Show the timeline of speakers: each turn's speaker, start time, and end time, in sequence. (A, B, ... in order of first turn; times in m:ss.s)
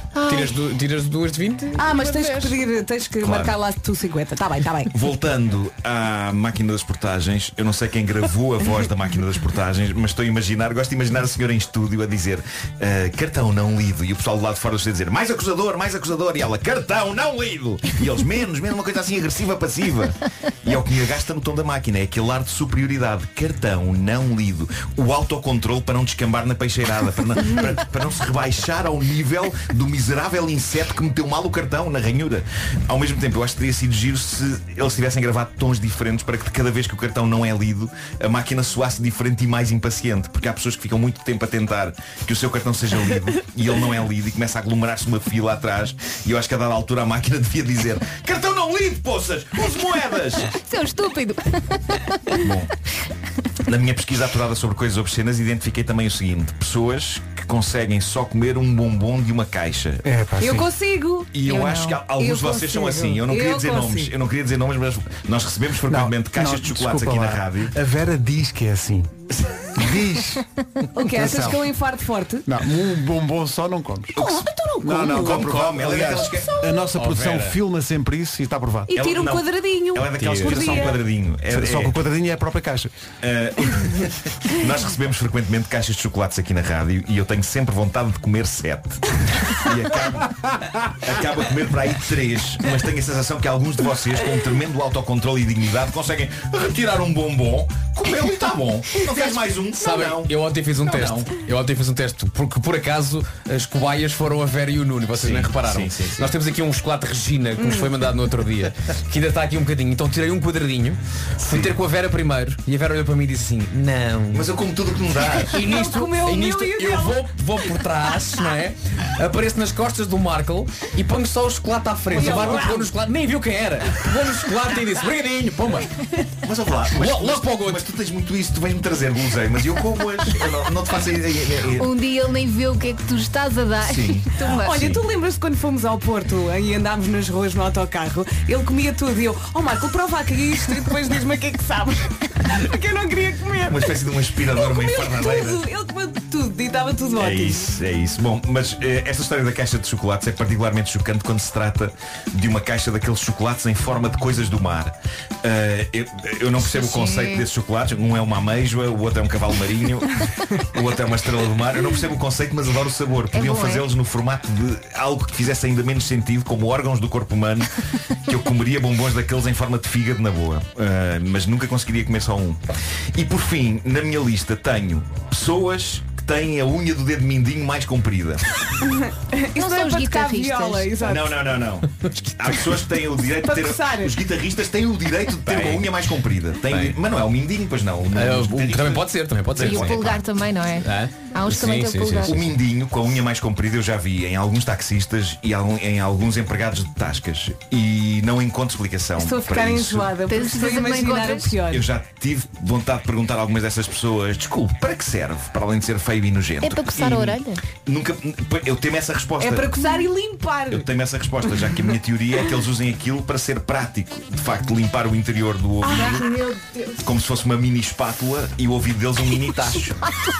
0:00.2-0:00.5 A
0:00.2-0:02.4 B
0:01.8-0:04.9 C
0:03.2-0:03.5 D
0:04.9-0:50.5 D
0:50.5-0:52.4 A
0:52.4-0:52.7 D
0:53.7-1:00.0 D
1:00.0-1:00.7 E
1:00.4-1:01.3 C
1:01.3-1:07.7 D
1:01.4-1:02.0 A
1:02.2-1:04.1 C
1:05.9-1:09.1 E
1:09.3-1:09.7 D
1:09.8-1:10.4 E
1:10.9-1:12.4 C
1:11.0-1:11.6 E
1:12.4-1:14.2 E
1:14.2-1:15.5 C
1:14.2-1:16.6 D
1:14.8-1:18.9 E
1:16.9-1:17.6 B
1:18.9-1:21.0 C
1:18.9-1:22.0 D
1:20.2-1:20.9 B
1:21.5-1:22.9 E
1:23.2-1:41.4 D
1:39.8-1:54.5 B
1:45.1-1:46.3 D
1:47.6-1:47.9 C
1:51.5-1:51.7 D
1:54.3-1:55.6 D
1:55.5-2:05.9 B
1:55.6-1:57.3 C
2:02.1-2:02.9 C
2:02.3-2:02.6 D
2:06.4-2:11.9 D
2:06.9-2:07.9 B
2:11.8-2:14.9 A
2:13.8-2:15.0 D
2:14.4-2:27.7 C
2:23.6-2:25.6 D
2:27.2-2:47.7 D
2:36.6-2:37.5 A
2:43.3-2:43.9 A
2:48.2-2:52.6 D
2:53.1-2:58.4 D
2:59.1-3:01.4 C
2:59.6-3:01.0 A
3:01.0-3:10.2 D
3:03.4-3:04.2 C
3:05.5-3:05.9 B
3:06.7-3:07.0 B
3:08.1-3:10.2 B
3:09.6-3:12.4 A
3:10.8-3:12.4 B
3:12.3-3:20.2 D
3:19.2-3:21.9 C
3:20.3-3:21.6 A
3:21.7-3:29.7 D
3:26.6-3:27.6 A
3:29.4-3:30.9 C
3:30.7-3:36.3 D
3:35.8-3:36.9 C
3:37.0-3:40.0 D